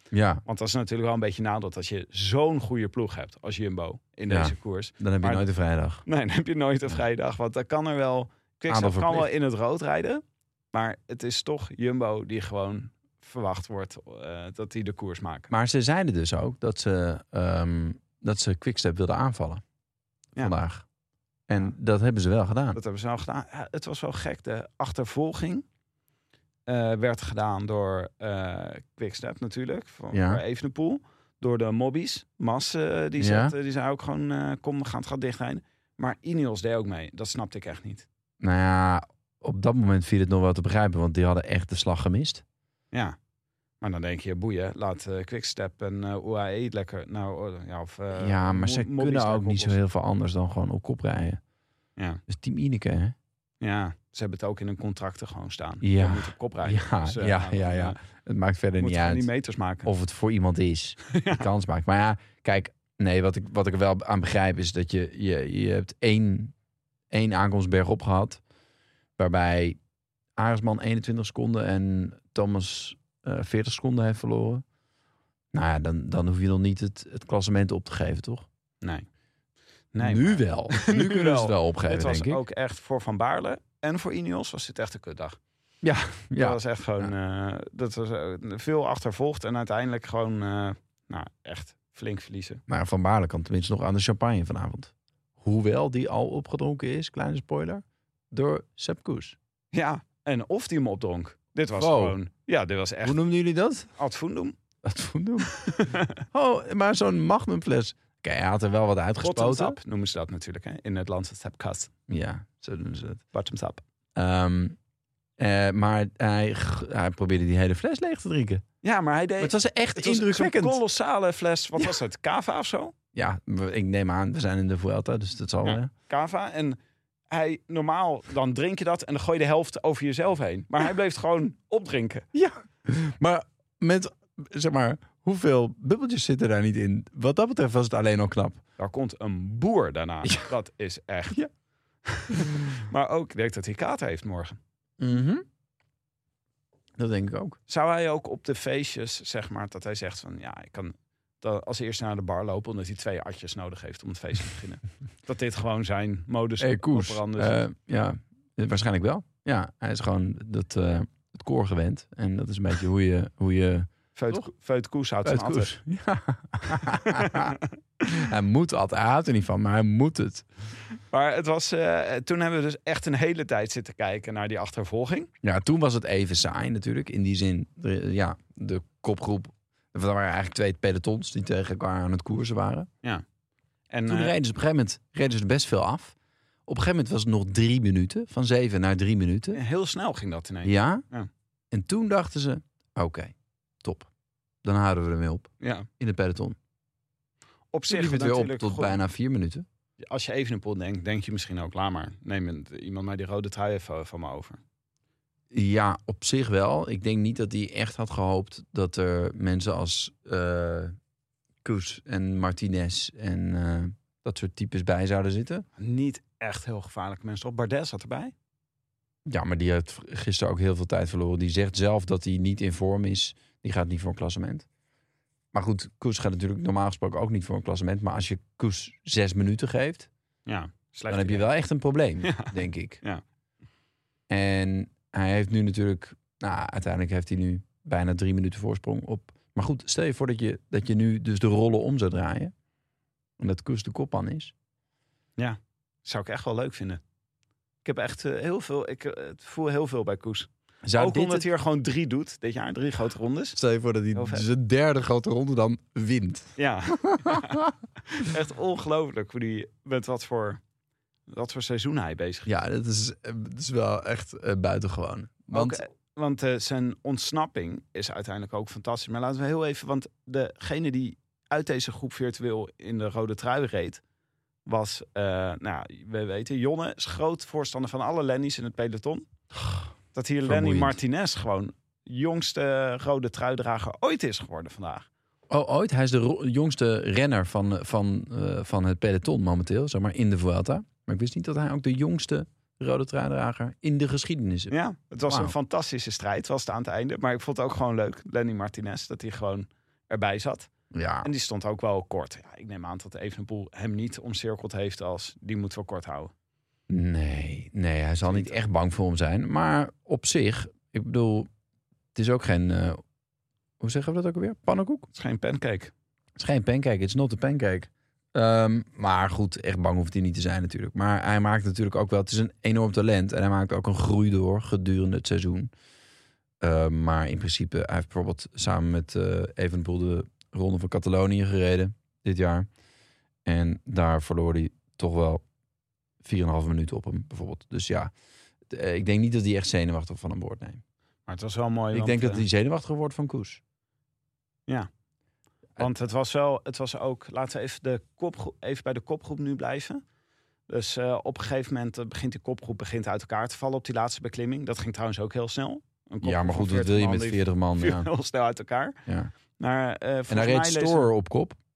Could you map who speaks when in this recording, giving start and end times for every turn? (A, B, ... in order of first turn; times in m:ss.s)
0:00.1-0:00.4 A
0:00.5-0:05.5 B
0:04.3-0:06.0 A
0:06.0-0:15.5 B
0:08.7-0:09.3 A
0:15.5-0:19.6 A
0:20.4-0:20.8 A
0:21.5-0:22.8 A
0:22.7-0:25.6 B
0:26.7-0:38.1 B
0:30.1-0:30.4 A
0:33.2-0:33.6 A
0:38.4-0:42.4 A
0:43.8-0:49.8 B
0:48.2-0:51.4 A
0:52.3-0:53.2 A
0:53.6-0:58.0 B
0:55.8-0:59.3 A
0:58.8-0:59.9 B
0:59.8-1:06.5 A
1:01.1-1:01.5 B
1:07.1-1:08.4 A
1:09.2-1:09.8 A
1:10.4-1:14.6 A
1:15.5-1:18.5 A
1:18.8-1:19.1 B
1:19.9-1:25.4 B
1:20.0-1:22.4 A
1:25.8-1:27.1 A
1:26.4-1:32.6 B
1:32.7-1:39.4 A
1:39.7-1:43.2 B
1:41.8-1:42.2 A
1:43.0-1:43.9 A
1:44.0-1:44.6 B
1:44.8-1:49.8 A
1:45.6-1:46.1 B
1:49.2-1:51.9 B
1:52.1-1:53.2 A
1:53.3-1:53.8 B
1:54.2-1:54.8 A
1:55.4-1:58.6 A
1:58.8-2:02.9 B
1:59.4-2:00.8 A
2:03.1-2:05.9 A
2:05.6-2:06.8 B
2:07.3-2:12.3 B
2:12.3-2:18.6 A
2:18.8-2:21.5 B
2:20.2-2:20.5 A
2:22.1-2:24.6 B
2:25.0-2:25.4 A
2:27.0-2:27.6 A
2:27.7-2:37.6 B
2:36.6-2:44.5 A
2:44.2-2:45.7 B
2:45.2-2:50.5 A
2:46.9-2:47.6 B
2:51.1-2:55.3 B
2:55.4-3:02.9 A
3:03.9-3:04.4 B
3:04.1-3:06.2 A
3:06.7-3:09.6 A
3:09.5-3:11.3 B
3:10.6-3:11.0 A
3:11.7-3:14.1 A
3:14.6-3:16.6 A
3:15.6-3:15.9 B
3:17.7-3:19.0 B
3:17.9-3:19.6 A
3:20.0-3:24.6 B
3:25.5-3:31.0 A
3:31.6-3:35.6 A
3:35.8-3:38.3 B
3:39.3-3:44.7 A
3:45.5-3:50.1 A
3:50.5-3:51.5 B
3:51.1-3:53.0 A
3:52.2-3:53.2 B
3:54.3-4:02.5 A
4:03.4-4:04.5 A
4:05.4-4:07.0 B
4:07.8-4:13.6 B
4:10.8-4:11.4 A
4:13.6-4:17.7 A
4:14.1-4:14.4 B
4:16.6-4:17.6 B
4:18.1-4:20.6 B
4:21.3-4:22.5 B
4:22.5-4:25.8 A
4:25.5-4:34.0 B
4:34.7-4:39.3 B
4:39.6-4:39.9 A
4:40.1-4:45.1 B
4:40.4-4:41.0 A
4:45.5-4:54.7 A
4:54.7-5:00.7 B
4:55.3-4:55.5 A
5:00.9-5:01.3 A
5:01.2-5:06.3 B
5:06.9-5:11.5 A
5:08.2-5:08.5 B
5:12.2-5:13.0 A
5:13.8-5:15.1 A
5:15.1-5:15.9 B
5:16.4-5:25.7 A
5:26.6-5:32.7 A
5:33.4-5:35.4 A
5:36.2-5:38.1 A
5:38.7-5:40.8 A
5:41.3-5:42.5 B
5:41.9-5:43.6 A
5:45.8-5:50.0 B
5:50.7-5:59.0 B
5:56.2-5:58.1 A
5:59.1-5:59.3 A
5:59.6-6:01.1 B
6:00.3-6:01.6 A